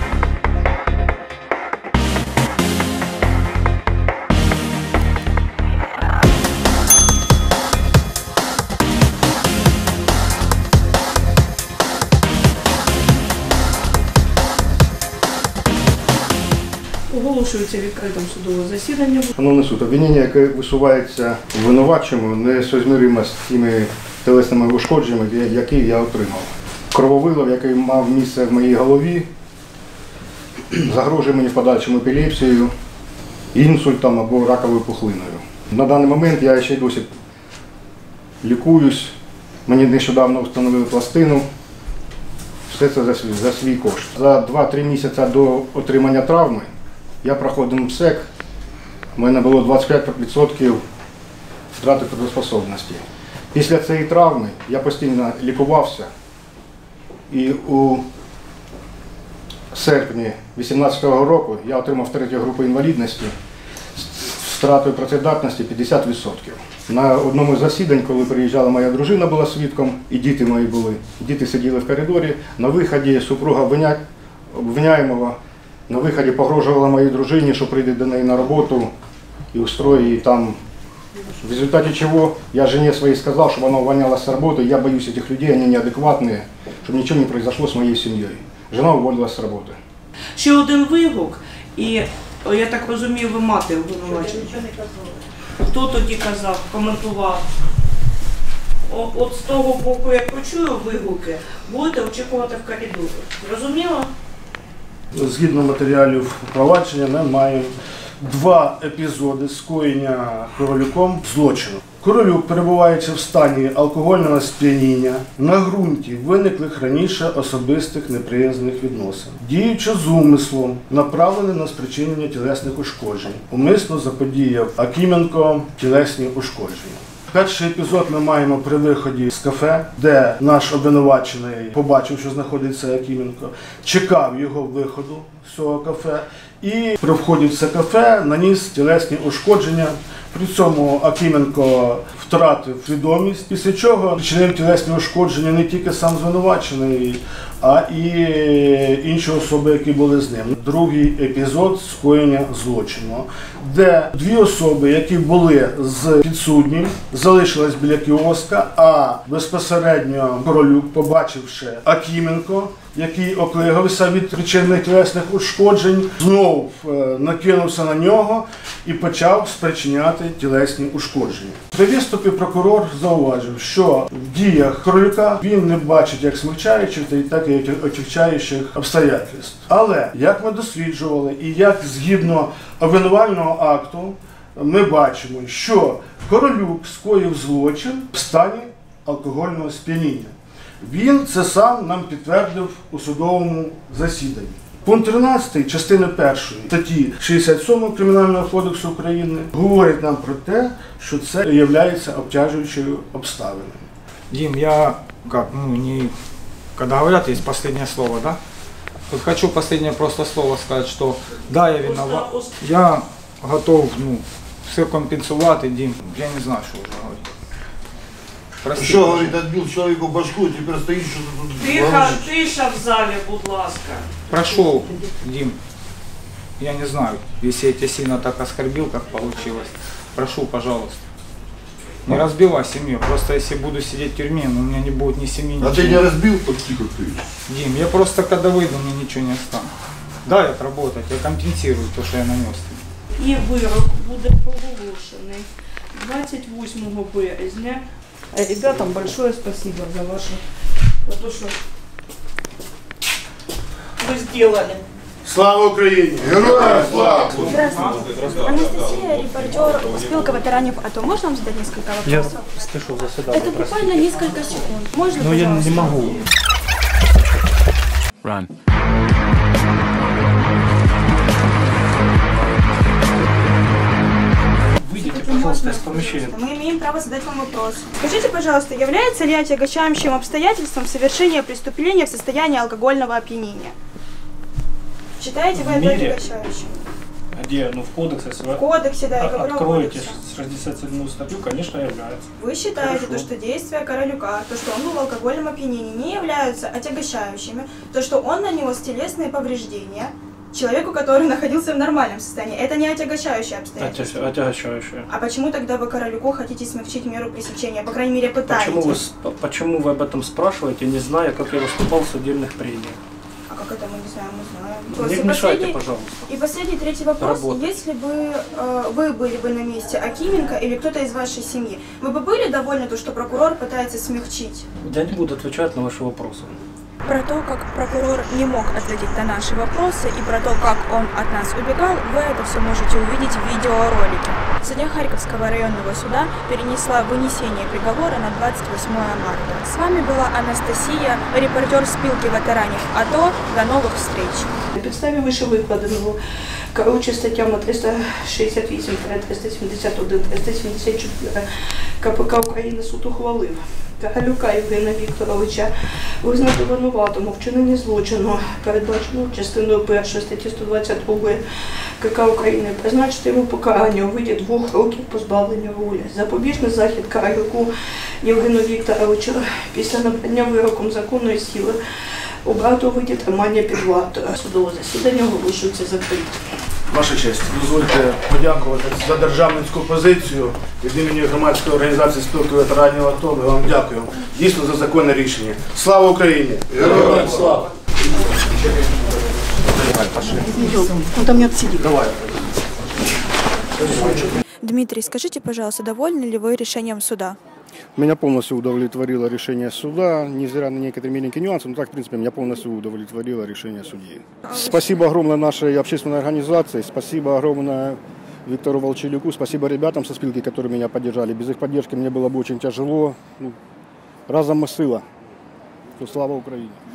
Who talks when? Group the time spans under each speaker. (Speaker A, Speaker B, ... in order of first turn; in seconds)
Speaker A: 17.1-19.3, 90.4-94.9, 95.6-97.5, 98.9-104.1, 211.9-212.5, 221.6-224.1, 243.2-250.4, 251.1-251.6, 254.0-254.8, 344.8-346.2, 346.7-351.4, 352.0-361.4, 362.0-367.7, 368.2-376.3, 390.4-392.0
Speaker B: 19.4-29.3, 30.7-32.7, 33.5-37.1, 38.4-39.1, 39.7-41.5, 42.7-46.7, 47.2-48.3, 49.1-50.8, 51.8-56.1, 57.3-58.0, 59.7-63.3, 64.0-75.4, 75.9-78.9, 79.5-80.6, 81.4-89.8, 398.0-413.6, 414.3-415.1, 416.0-416.8
Speaker C: 105.1-203.9, 255.2-257.4, 376.9-387.2
Speaker D: 204.3-206.1, 206.8-208.4, 209.1-217.3, 218.6-219.4, 224.3-225.6, 226.6-231.0, 232.1-236.1, 237.5-239.7, 240.2-242.8
Speaker E: 218.7-222.4, 235.6-237.2, 256.3-257.5, 386.8-387.5
Speaker F: 257.4-262.6, 263.3-266.0, 275.0-283.8, 285.2-286.7, 288.6-290.2, 292.4-304.3, 305.1-309.0, 313.5-324.7, 327.0-344.5, 394.7-397.4
Speaker G: 262.1-264.2, 265.2-266.3, 274.8-276.4, 285.6-286.2, 287.3-293.3, 303.8-305.1, 308.5-313.0, 314.9-316.4, 317.2-317.8, 324.8-326.6